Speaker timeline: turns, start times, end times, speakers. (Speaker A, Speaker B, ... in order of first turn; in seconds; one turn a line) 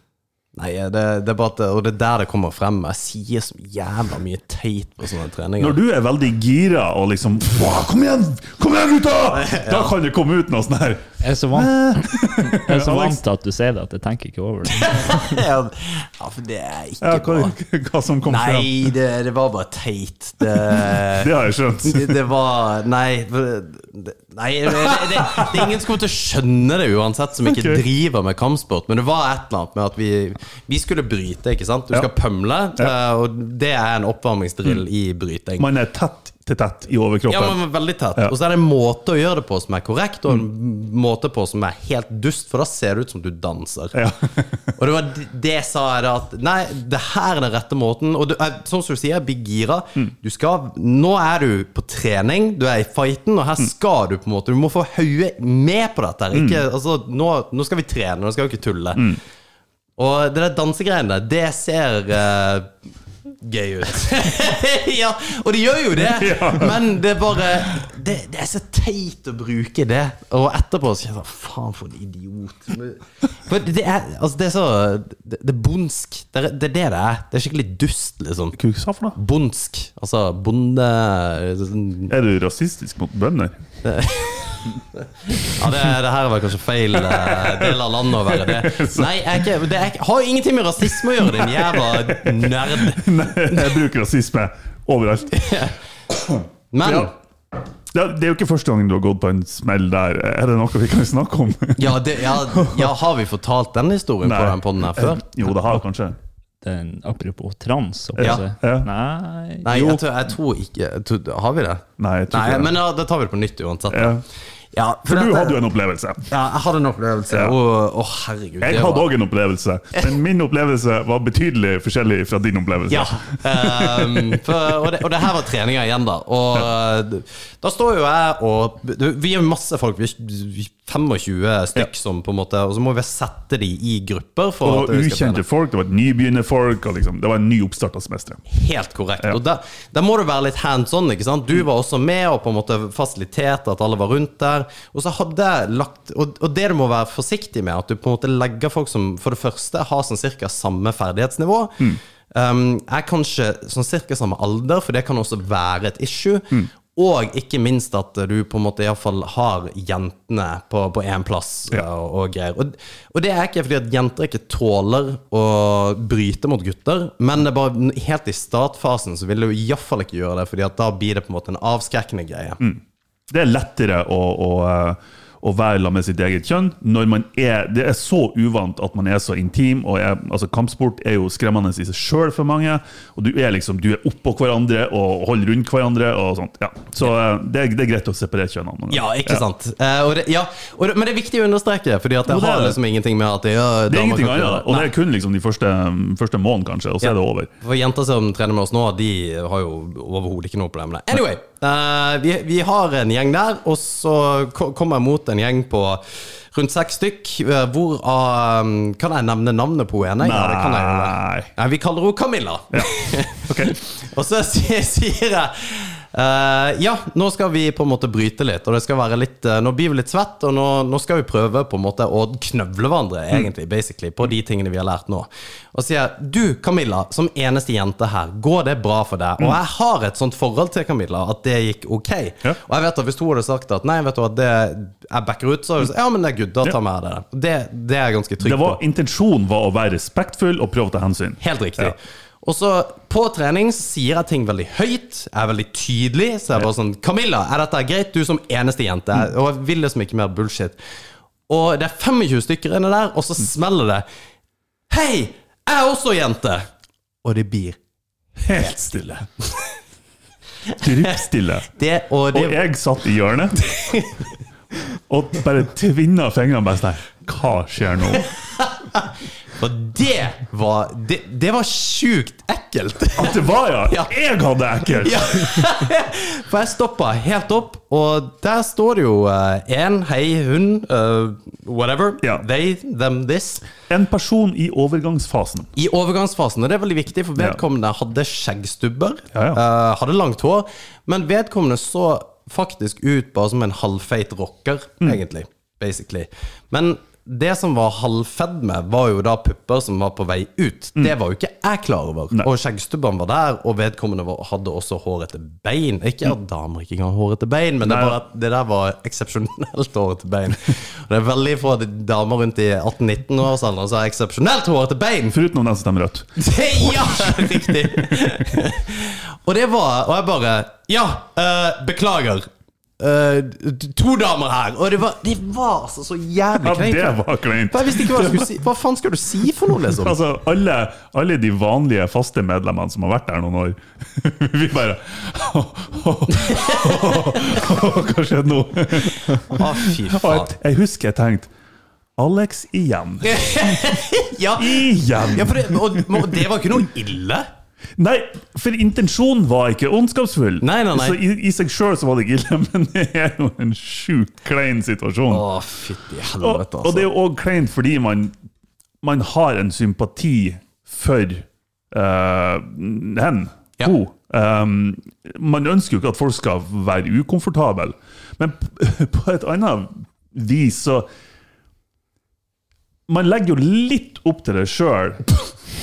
Speaker A: 0.6-5.8
Speaker B: 5.6-13.2
Speaker A: 9.3-9.9
Speaker C: 11.2-15.3
Speaker A: 14.7-17.6
Speaker B: 17.0-18.7
Speaker A: 18.3-21.3
Speaker B: 20.5-22.2
Speaker A: 21.8-35.7
Speaker B: 24.9-25.7
Speaker B: 27.4-27.8
Speaker B: 35.6-37.6
Speaker A: 37.3-44.0
Speaker B: 43.9-44.5
Speaker A: 44.8-59.2
Speaker B: 56.3-56.6
Speaker A: 60.0-62.7
Speaker A: 63.4-78.6
Speaker B: 66.0-66.8
Speaker B: 78.6-79.2
Speaker A: 79.2-82.1
Speaker B: 82.1-83.6
Speaker A: 83.8-93.7
Speaker B: 86.9-89.5
Speaker B: 91.1-95.4
Speaker A: 95.3-95.8
Speaker B: 96.3-97.1
Speaker A: 96.7-97.1
Speaker B: 97.9-102.9
Speaker A: 101.8-105.2
Speaker B: 104.2-106.2
Speaker C: 106.6-109.7
Speaker B: 108.2-108.9
Speaker A: 108.2-108.4
Speaker A: 109.6-114.2
Speaker B: 109.7-110.0
Speaker B: 112.0-112.8
Speaker B: 113.9-114.2
Speaker A: 114.7-115.6
Speaker B: 115.1-116.3
Speaker A: 116.3-119.1
Speaker B: 117.3-117.6
Speaker B: 118.6-124.6
Speaker A: 122.9-135.4
Speaker B: 134.6-138.4
Speaker A: 138.5-172.6
Speaker B: 172.6-189.4
Speaker A: 188.9-194.9
Speaker B: 192.3-192.8
Speaker B: 193.9-197.5
Speaker A: 197.0-238.8
Speaker B: 210.2-211.5
Speaker B: 213.5-213.8
Speaker B: 238.4-241.9
Speaker A: 241.4-250.8
Speaker A: 251.5-254.1
Speaker A: 254.9-256.7
Speaker A: 257.2-257.8
Speaker A: 258.4-259.6
Speaker B: 258.4-259.3
Speaker A: 260.7-261.2
Speaker B: 260.8-261.7
Speaker A: 261.7-262.6
Speaker B: 262.3-263.6
Speaker A: 263.6-264.3
Speaker B: 265.1-268.3
Speaker A: 268.2-274.1
Speaker B: 273.2-275.7
Speaker A: 274.9-283.7
Speaker B: 283.9-285.7
Speaker A: 285.8-315.4
Speaker B: 289.3-289.6
Speaker B: 307.8-308.2
Speaker B: 315.3-318.4
Speaker A: 316.4-322.5
Speaker A: 323.0-330.2
Speaker B: 326.6-328.5
Speaker B: 329.9-341.5
Speaker A: 336.4-337.4
Speaker A: 339.2-340.5
Speaker B: 342.2-344.0
Speaker A: 343.2-347.5
Speaker B: 344.6-346.5
Speaker B: 348.0-355.4
Speaker A: 350.6-351.2
Speaker A: 355.3-357.1
Speaker B: 356.4-358.3
Speaker B: 359.0-371.1
Speaker B: 373.1-375.3